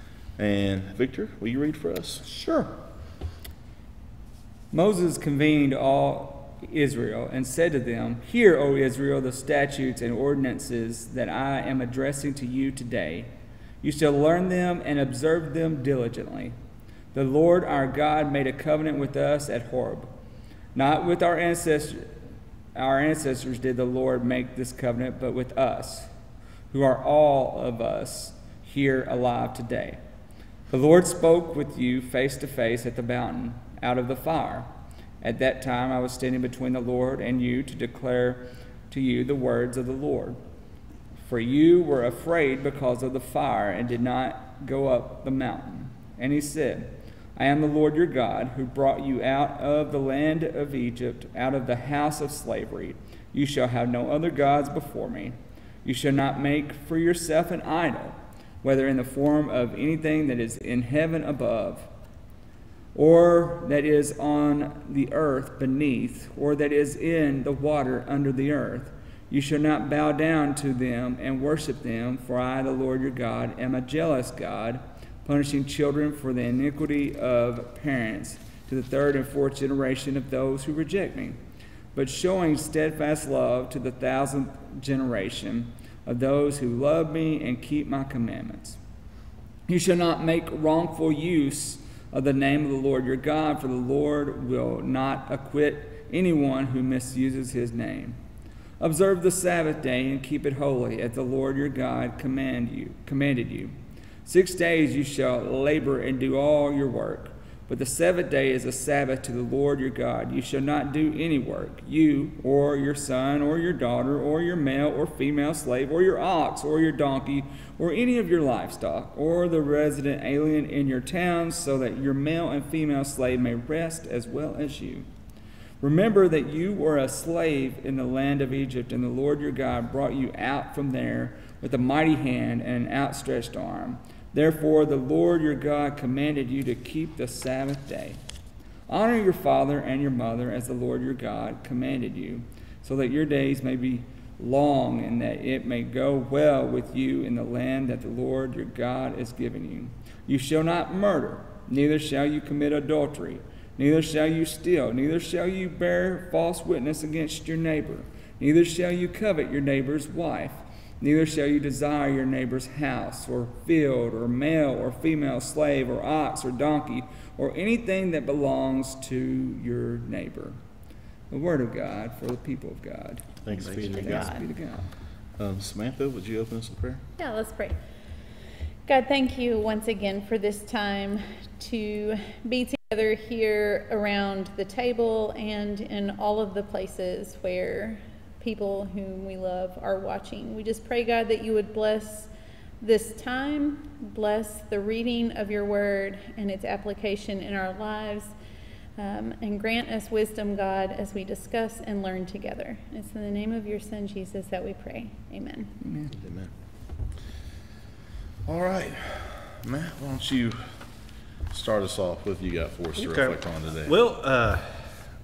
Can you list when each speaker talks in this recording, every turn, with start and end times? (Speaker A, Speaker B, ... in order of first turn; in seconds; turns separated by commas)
Speaker A: 0.4-2.2, Speaker B: 2.3-2.8, Speaker B: 4.7-13.3, Speaker B: 13.8-16.6, Speaker B: 17.1-20.1, Speaker B: 20.8-22.2, Speaker B: 22.8-26.1, Speaker B: 26.7-30.0, Speaker B: 30.7-40.4, Speaker B: 41.2-61.9, Speaker B: 62.9-81.4, Speaker B: 81.9-88.8, Speaker B: 89.7-98.2, Speaker B: 98.8-125.1, Speaker B: 125.8-138.2, Speaker B: 138.9-170.6, Speaker B: 171.3-174.9, Speaker A: 173.4-174.4, Speaker C: 173.8-174.4, Speaker A: 175.4-177.0, Speaker C: 177.2-177.8, Speaker C: 178.9-192.3, Speaker C: 192.8-198.3, Speaker C: 199.0-205.7, Speaker B: 205.8-206.1, Speaker A: 206.1-206.5, Speaker A: 208.5-210.8, Speaker A: 211.5-214.0, Speaker D: 213.0-215.0